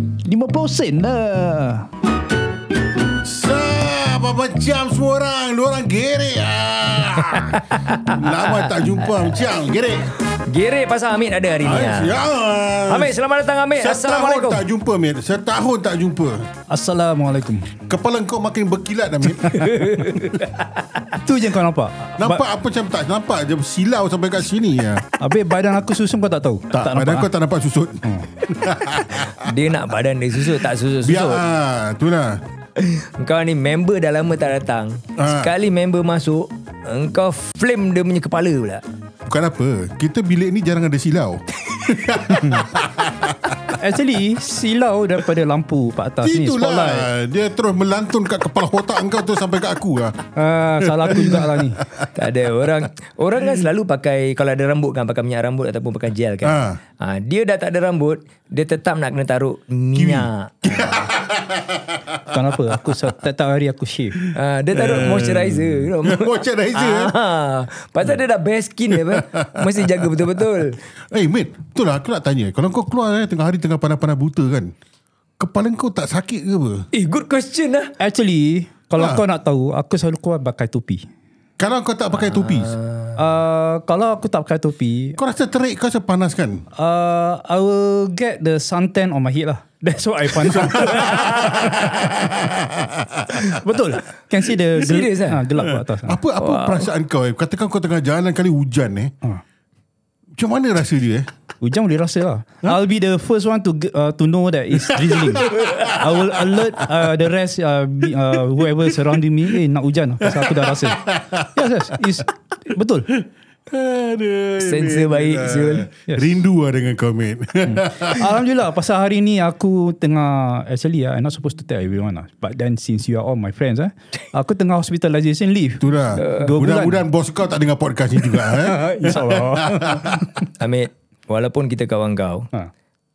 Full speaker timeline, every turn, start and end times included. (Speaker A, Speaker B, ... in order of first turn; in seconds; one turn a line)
Speaker A: 0.2-1.9
Speaker B: 3.1-10.1
Speaker C: 7.5-9.3
Speaker C: 10.3-12.2
Speaker B: 11.6-13.2
Speaker C: 12.9-14.6
Speaker B: 13.8-16.5
Speaker A: 16.7-17.8
Speaker B: 17.9-20.0
Speaker C: 19.4-20.8
Speaker A: 21.1-22.4
Speaker B: 22.2-25.0
Speaker A: 25.2-27.3
Speaker B: 26.7-29.5
Speaker A: 28.0-28.3
Speaker C: 29.4-31.4
Speaker B: 30.5-32.4
Speaker C: 32.8-38.8
Speaker B: 35.2-35.5
Speaker B: 39.3-43.8
Speaker A: 42.3-42.7
Speaker A: 43.8-47.1
Speaker B: 46.2-50.2
Speaker A: 50.4-51.8
Speaker B: 50.8-52.1
Speaker C: 52.1-61.1
Speaker B: 56.4-56.8
Speaker B: 60.0-62.4
Speaker A: 62.3-64.2
Speaker B: 64.2-67.2
Speaker C: 64.3-70.8
Speaker B: 68.9-70.2
Speaker B: 71.0-74.7
Speaker B: 75.4-76.9
Speaker C: 76.9-77.9
Speaker A: 78.0-81.0
Speaker B: 79.0-79.2
Speaker B: 81.6-82.8
Speaker C: 82.2-83.2
Speaker A: 83.2-85.2
Speaker B: 85.2-86.7
Speaker A: 86.8-91.9
Speaker B: 90.3-93.6
Speaker A: 93.4-96.2
Speaker C: 94.8-95.4
Speaker B: 95.7-99.1
Speaker C: 96.4-96.9
Speaker B: 100.4-101.3
Speaker A: 101.6-113.1
Speaker B: 104.8-106.9
Speaker B: 110.3-111.6
Speaker B: 113.2-118.3
Speaker C: 114.6-115.9
Speaker A: 117.7-127.0
Speaker B: 125.8-130.3
Speaker C: 126.2-126.5
Speaker A: 128.3-130.4
Speaker C: 130.6-132.5